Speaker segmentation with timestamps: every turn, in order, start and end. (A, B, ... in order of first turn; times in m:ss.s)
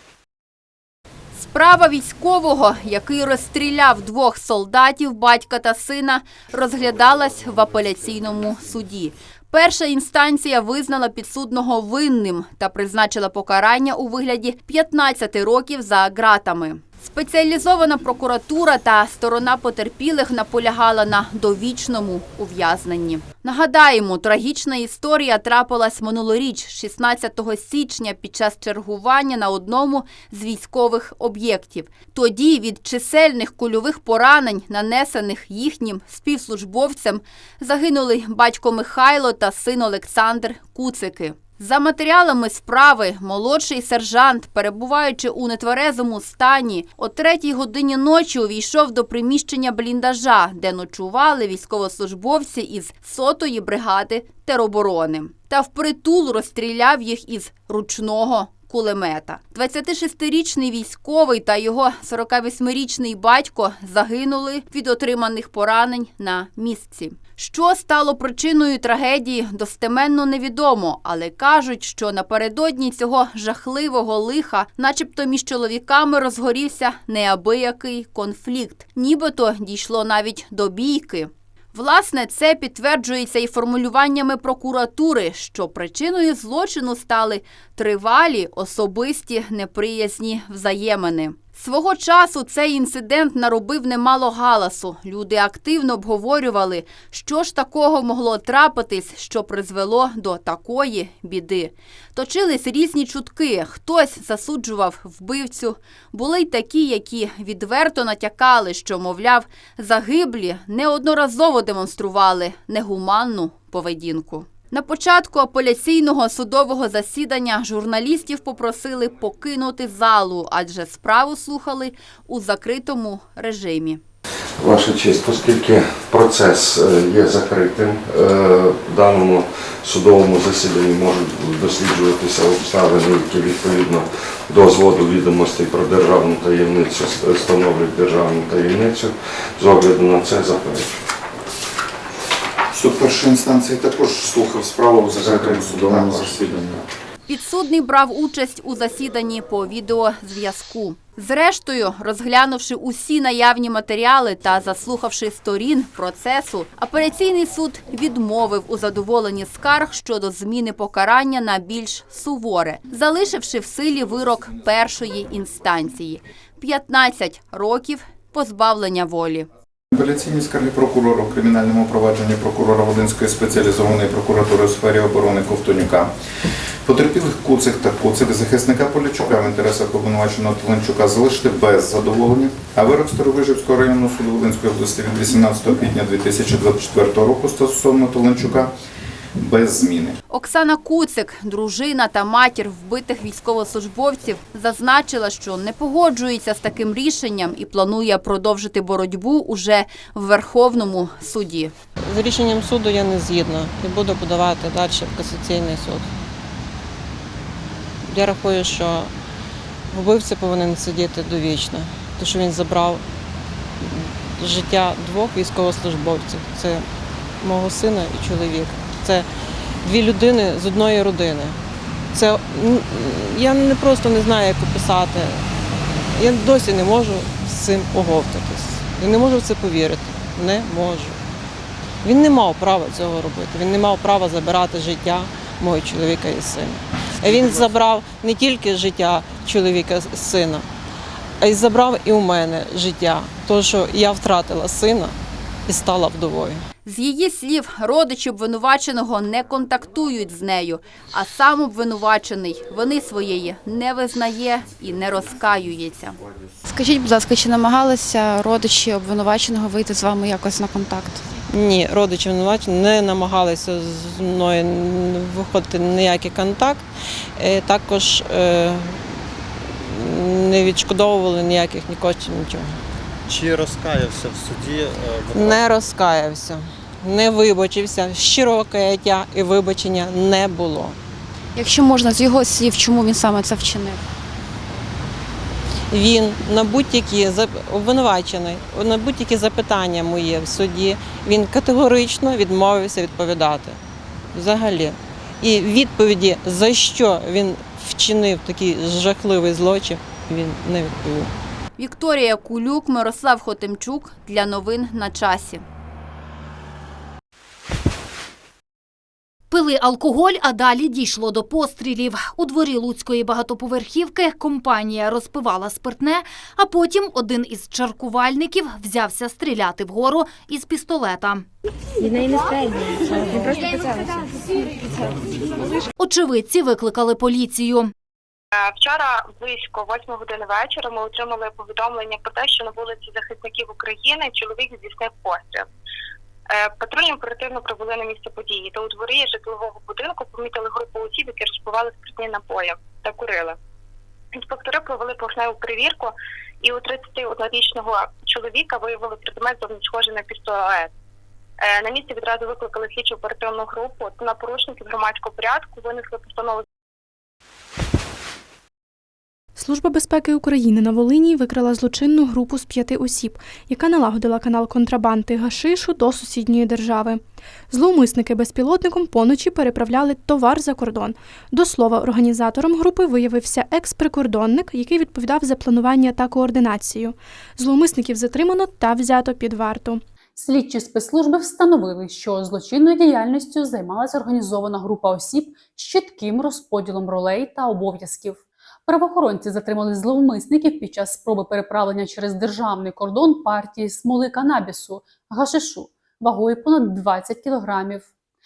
0:01.4-2:04.0 A
2:04.6-2:21.0 B
2:22.7-2:26.8 C
2:25.2-2:26.5 B
2:27.3-2:49.5 A
2:49.9-2:56.1 C
2:56.8-3:08.7 C
3:09.4-3:10.2 C
3:10.3-3:21.7 A
3:22.0-3:26.1 D
3:28.0-3:29.1 D
3:29.9-3:33.0 D
3:33.8-3:36.9 D
3:37.4-3:39.3 D
3:39.8-3:41.6 D
3:42.1-3:45.5 D
3:46.1-3:51.2 D
3:52.0-4:00.7 D
3:57.3-3:57.7 E
4:01.4-4:06.6 D
4:06.8-4:16.2 A
4:16.7-4:21.2 F
4:21.5-4:29.2 D
4:29.7-4:32.8 D
4:33.3-4:35.6 E
4:35.3-4:41.0 D
4:41.6-4:44.0 F
4:45.9-4:53.8 D
4:54.3-5:01.3 D
5:01.8-5:05.6 A
5:09.5-5:21.5 G
5:26.0-5:27.9 G
5:28.6-5:35.7 H
5:36.5-5:43.6 H
5:44.3-5:50.9 H
5:51.6-5:56.6 H
5:59.6-6:20.0 I
6:20.4-6:38.1 J